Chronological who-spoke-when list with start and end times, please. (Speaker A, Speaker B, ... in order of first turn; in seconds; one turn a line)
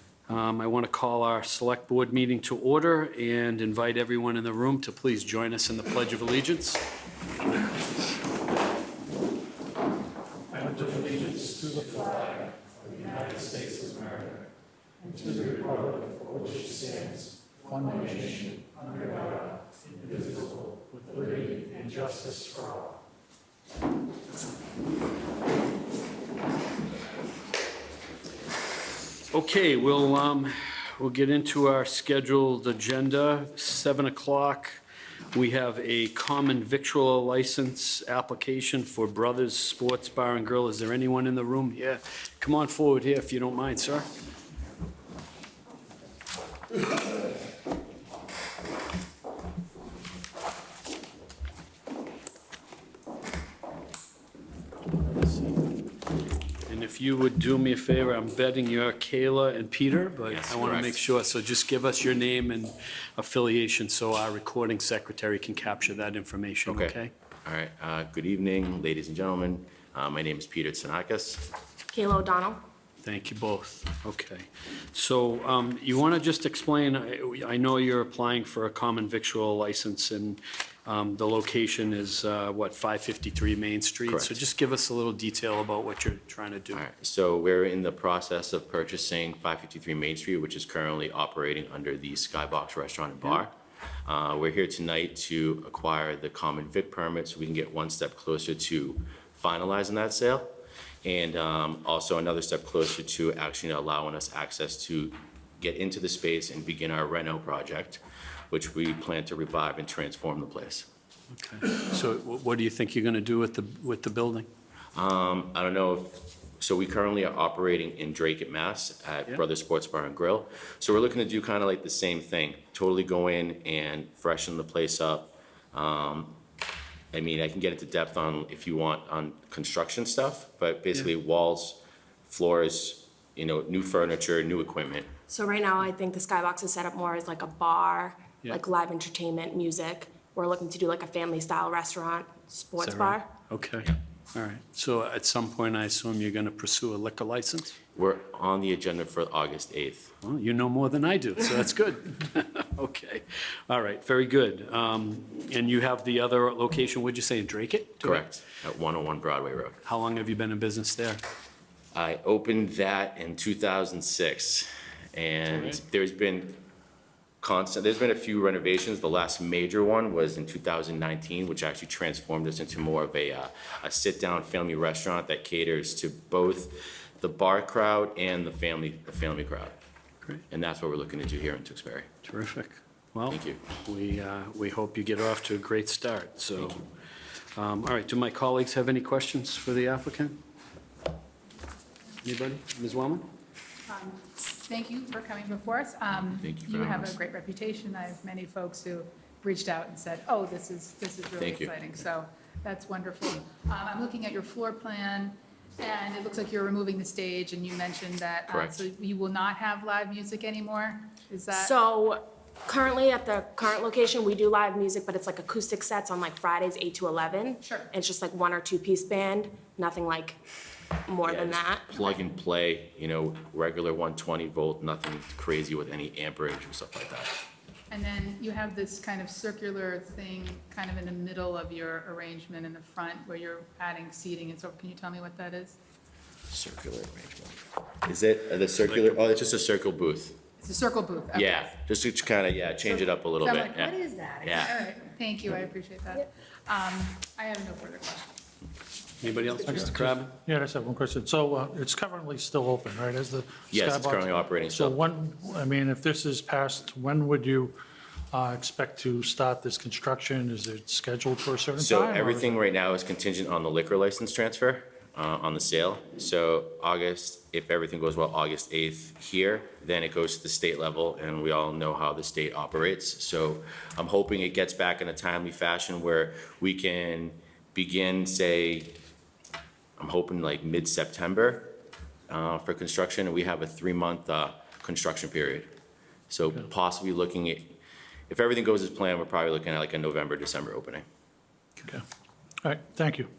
Speaker A: 0.3-6.8
Speaker B: 10.5-14.3
Speaker B: 15.0-22.9
Speaker A: 29.3-34.8
Speaker A: 35.3-44.1
Speaker A: 55.0-55.6
Speaker A: 56.7-67.1
Speaker C: 60.3-61.0
Speaker C: 66.7-71.5
Speaker D: 71.9-72.6
Speaker A: 73.0-86.8
Speaker C: 84.1-84.3
Speaker C: 86.7-93.5
Speaker C: 94.0-100.5
Speaker C: 101.0-108.0
Speaker C: 108.5-110.9
Speaker A: 111.3-114.5
Speaker C: 114.9-126.4
Speaker C: 127.1-135.1
Speaker D: 135.3-143.3
Speaker A: 142.8-147.8
Speaker C: 147.9-150.1
Speaker A: 150.2-158.2
Speaker C: 158.0-159.8
Speaker A: 159.8-161.2
Speaker C: 161.9-166.6
Speaker A: 165.5-165.8
Speaker C: 167.4-179.8
Speaker C: 180.5-182.1
Speaker A: 182.2-186.8
Speaker C: 183.3-183.6
Speaker A: 187.5-190.4
Speaker A: 192.2-193.3
Speaker E: 193.9-211.7
Speaker C: 196.1-197.2
Speaker C: 201.4-201.8
Speaker C: 208.5-208.8
Speaker D: 211.5-220.4
Speaker E: 217.6-217.9
Speaker D: 221.0-222.2
Speaker C: 221.2-227.3
Speaker E: 227.9-235.8
Speaker C: 236.5-240.4
Speaker E: 240.6-241.7
Speaker C: 241.3-244.8
Speaker E: 242.8-248.3
Speaker A: 249.2-250.4
Speaker B: 249.6-257.8
Speaker C: 253.7-255.0
Speaker B: 258.3-262.6
Speaker C: 261.8-279.0
Speaker C: 280.0-281.7
Speaker C: 282.3-285.7
Speaker C: 286.3-287.8
Speaker C: 288.3-291.0
Speaker B: 292.6-293.3